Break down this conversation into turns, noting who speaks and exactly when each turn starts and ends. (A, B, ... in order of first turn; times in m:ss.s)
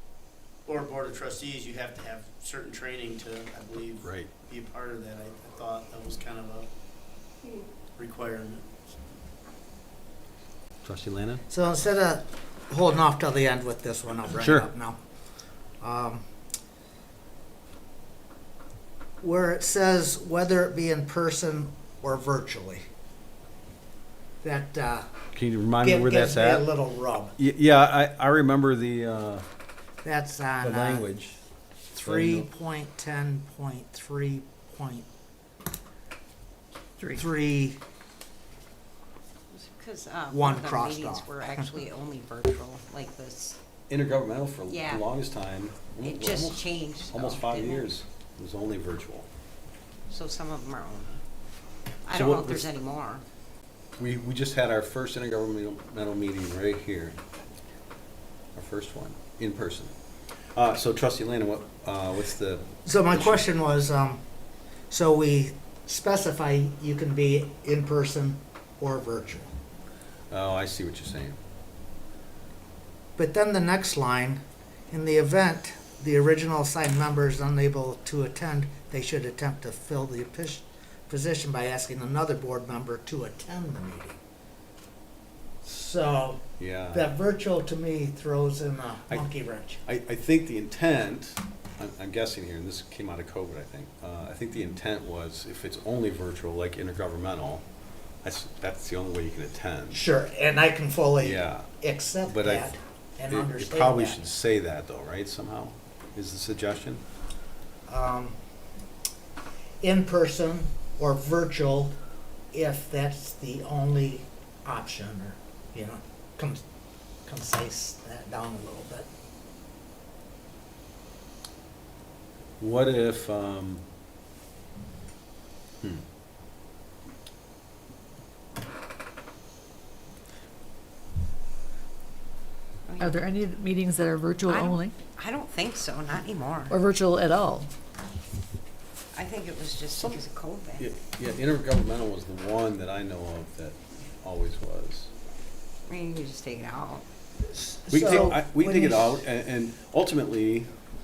0:00.6-0:06.7 A
0:04.0-0:04.3 B
0:08.0-0:08.9 A
0:10.8-0:11.4 B
0:11.5-0:15.0 C
0:14.4-0:14.7 B
0:15.8-0:16.2 C
0:19.2-0:22.8 C
0:24.4-0:25.0 C
0:25.3-0:26.7 B
0:25.8-0:27.4 C
0:27.4-0:29.4 B
0:30.0-0:31.0 C
0:30.6-0:31.4 B
0:31.9-0:35.1 C
0:32.0-0:32.5 B
0:37.1-0:37.8 C
0:39.5-0:43.6 D
0:40.3-0:41.4 C
0:43.9-0:49.3 B
0:44.7-0:45.0 D
0:46.0-0:47.9 D
0:50.1-0:51.2 D
0:52.0-0:53.2 D
0:52.1-0:52.7 B
0:54.0-0:57.2 B
0:58.5-1:00.0 B
1:00.5-1:03.4 B
1:02.8-1:04.2 C
1:04.9-1:09.5 C
1:10.3-1:11.4 B
1:13.2-1:24.2 C
1:25.6-1:29.8 C
1:26.6-1:27.0 B
1:29.8-1:37.6 B
1:38.2-1:40.0 B
1:39.9-1:44.3 C
1:41.2-1:41.7 B
1:42.3-1:42.7 B
1:43.3-1:47.0 B
1:47.9-1:48.4 C
1:49.8-1:52.0 C
1:52.5-1:56.6 C
1:57.2-1:59.1 C
2:02.6-2:03.8 B
2:12.8-2:13.3 D
2:13.0-2:14.9 E
2:14.5-2:16.8 D
2:16.7-2:17.7 E
2:19.1-2:20.8 D
2:20.0-2:20.2 B
2:20.8-2:25.1 B
2:25.9-2:27.0 D
2:27.4-2:29.2 C
2:27.9-2:30.7 B